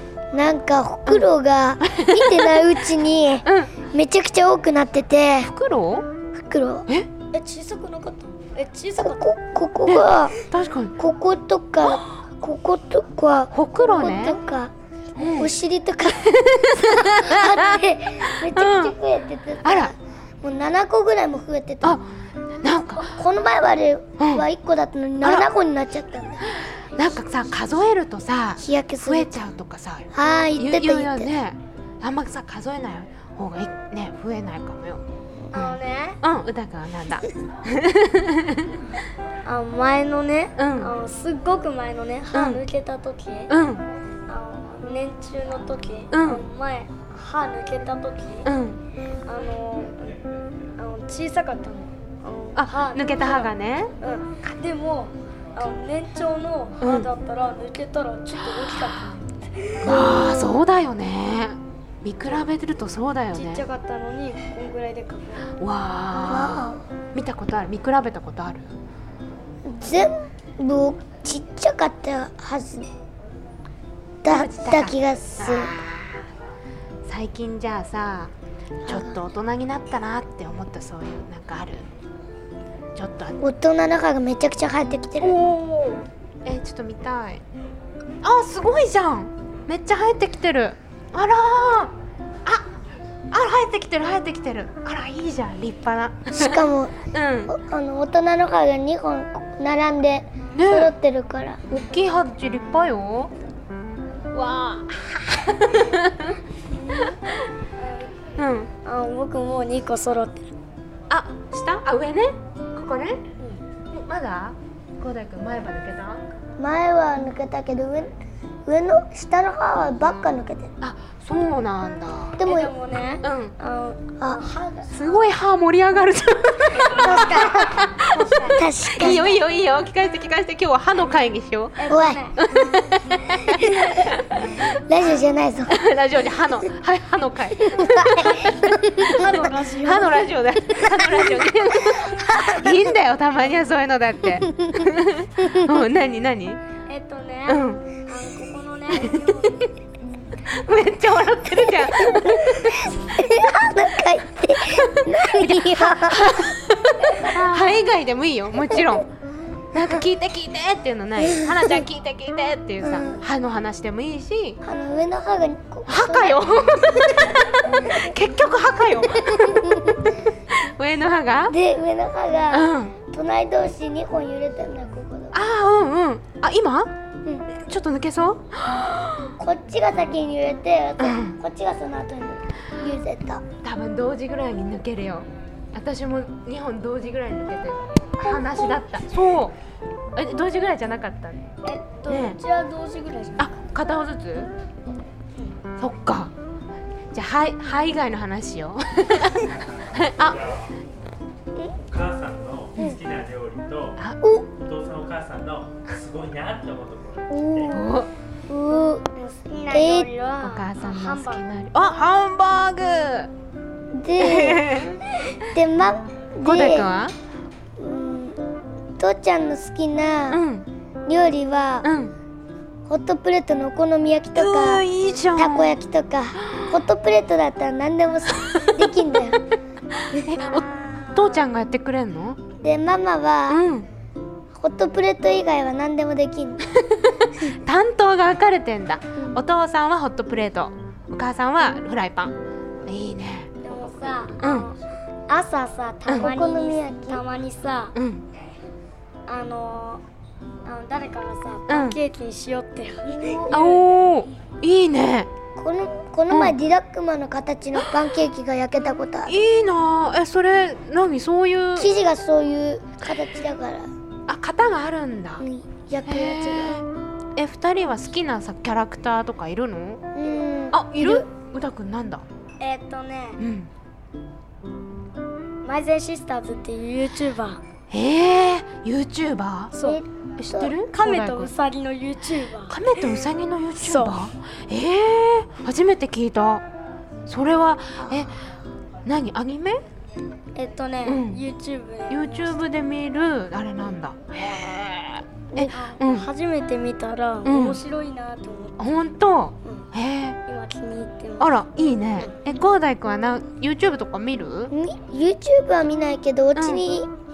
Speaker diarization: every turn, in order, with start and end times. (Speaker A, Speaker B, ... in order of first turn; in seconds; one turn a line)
Speaker A: 0.3-5.5
Speaker B: 1.8-2.6
Speaker B: 3.5-3.7
Speaker B: 5.5-6.0
Speaker A: 6.3-6.9
Speaker C: 7.3-9.3
Speaker A: 9.0-10.3
Speaker B: 9.8-10.9
Speaker A: 11.0-22.0
Speaker B: 11.8-12.1
Speaker B: 13.5-14.4
Speaker B: 15.2-15.5
Speaker B: 16.2-18.9
Speaker B: 19.6-19.9
Speaker B: 22.6-23.1
Speaker A: 23.0-26.7
Speaker B: 24.2-24.4
Speaker B: 25.2-25.5
Speaker B: 26.4-35.0
Speaker A: 28.6-29.5
Speaker A: 30.1-31.3
Speaker C: 35.5-36.2
Speaker B: 35.5-38.7
Speaker C: 39.4-43.5
Speaker B: 40.6-40.9
Speaker B: 42.3-42.6
Speaker B: 43.5-43.8
Speaker C: 44.3-48.5
Speaker B: 46.1-46.4
Speaker B: 48.5-48.8
Speaker C: 49.2-50.0
Speaker C: 50.8-59.8
Speaker B: 52.5-53.9
Speaker B: 56.8-57.1
Speaker B: 58.4-59.0
Speaker B: 59.8-63.6
Speaker A: 59.8-60.6
Speaker C: 63.3-65.5
Speaker B: 65.6-68.7
Speaker A: 66.2-66.8
Speaker A: 69.6-72.9
Speaker A: 74.2-75.7
Speaker B: 74.2-76.2
Speaker B: 77.0-78.3
Speaker A: 78.8-79.2
Speaker B: 78.8-81.8
Speaker B: 82.9-83.4
Speaker A: 83.4-85.4
Speaker B: 85.2-87.4
Speaker B: 88.2-91.9
Speaker B: 93.3-97.5
Speaker A: 96.3-96.9
Speaker A: 97.5-101.8
Speaker B: 100.5-100.9
Speaker B: 101.7-103.3
Speaker B: 104.3-106.4
Speaker C: 106.7-107.2
Speaker C: 107.8-108.1
Speaker B: 108.4-108.7
Speaker C: 108.8-110.5
Speaker B: 111.1-113.2
Speaker B: 113.9-116.2
Speaker A: 116.6-118.1
Speaker A: 118.7-120.7
Speaker B: 120.8-122.4
Speaker A: 122.4-122.7
Speaker C: 122.4-125.2
Speaker B: 123.2-123.5
Speaker B: 124.9-134.6
Speaker C: 126.7-129.3
Speaker A: 127.0-127.7
Speaker A: 128.5-129.4
Speaker C: 131.8-132.5
Speaker A: 131.9-132.2
Speaker A: 133.4-134.1
Speaker A: 134.7-135.8
Speaker B: 135.7-146.6
Speaker A: 137.7-139.1
Speaker C: 139.0-140.3
Speaker A: 140.8-141.3
Speaker A: 141.8-142.8
Speaker A: 144.4-145.8
Speaker C: 146.9-149.7
Speaker B: 147.5-147.8
Speaker B: 148.9-149.6
Speaker B: 150.5-152.9
Speaker A: 152.0-156.5
Speaker B: 154.8-159.1
Speaker C: 157.4-157.7
Speaker B: 159.7-164.6
Speaker A: 161.2-161.8
Speaker A: 162.8-163.2
Speaker A: 164.6-166.6
Speaker B: 165.9-171.6
Speaker A: 167.8-168.1
Speaker A: 169.2-170.0
Speaker A: 171.5-175.4
Speaker B: 172.5-172.9
Speaker B: 175.3-176.9
Speaker B: 177.5-179.3
Speaker A: 179.4-183.4
Speaker B: 181.0-181.4
Speaker B: 183.6-189.6
Speaker B: 190.2-191.5
Speaker C: 191.6-193.5
Speaker B: 192.1-192.4
Speaker B: 193.4-194.5
Speaker B: 195.8-196.3
Speaker B: 197.1-200.4
Speaker D: 199.6-200.7
Speaker D: 201.9-204.0
Speaker D: 204.6-207.7
Speaker A: 207.3-209.1
Speaker B: 207.7-208.1
Speaker C: 209.1-211.5
Speaker A: 209.7-210.1
Speaker B: 210.4-213.3
Speaker A: 213.9-214.9
Speaker B: 214.2-215.0
Speaker A: 215.5-216.9
Speaker B: 216.4-217.1
Speaker A: 217.8-218.4
Speaker A: 219.0-220.4
Speaker B: 220.3-220.7
Speaker A: 221.1-221.9
Speaker B: 221.8-222.1
Speaker A: 222.9-224.8
Speaker B: 224.3-225.8
Speaker A: 225.3-229.4
Speaker B: 226.4-226.8
Speaker B: 228.4-228.7
Speaker B: 230.0-232.4
Speaker A: 230.1-230.6
Speaker A: 232.6-233.6
Speaker B: 233.5-233.9
Speaker A: 234.5-236.6
Speaker B: 236.7-242.3
Speaker B: 242.9-243.5
Speaker C: 243.6-244.8
Speaker B: 244.4-244.7
Speaker C: 245.3-247.9
Speaker A: 246.2-247.2
Speaker B: 247.9-248.2
Speaker C: 249.3-250.0
Speaker C: 250.6-253.8
Speaker B: 251.7-252.0
Speaker A: 253.1-253.7
Speaker B: 253.5-255.3
Speaker A: 255.6-259.4
Speaker B: 256.3-256.5
Speaker B: 259.3-261.9
Speaker A: 261.8-263.9
Speaker B: 264.3-265.4
Speaker A: 265.4-266.8
Speaker B: 266.1-266.8
Speaker B: 267.4-270.0
Speaker A: 270.1-271.2
Speaker B: 270.7-272.2
Speaker C: 272.6-273.4
Speaker B: 273.4-273.7
Speaker C: 275.6-277.6
Speaker B: 277.9-279.7
Speaker C: 279.7-280.0
Speaker A: 279.8-280.7
Speaker B: 280.4-281.5
Speaker C: 280.9-282.8
Speaker B: 282.7-286.6
Speaker C: 283.8-284.2
Speaker B: 287.3-288.3
Speaker A: 288.0-288.3
Speaker B: 289.1-289.8
Speaker C: 290.5-292.6
Speaker B: 291.1-291.4
Speaker B: 292.1-296.3
Speaker C: 295.7-298.7
Speaker B: 297.4-297.8
Speaker B: 298.8-300.4
Speaker C: 300.5-301.5
Speaker B: 301.4-304.7
Speaker A: 304.7-307.1
Speaker B: 306.6-306.8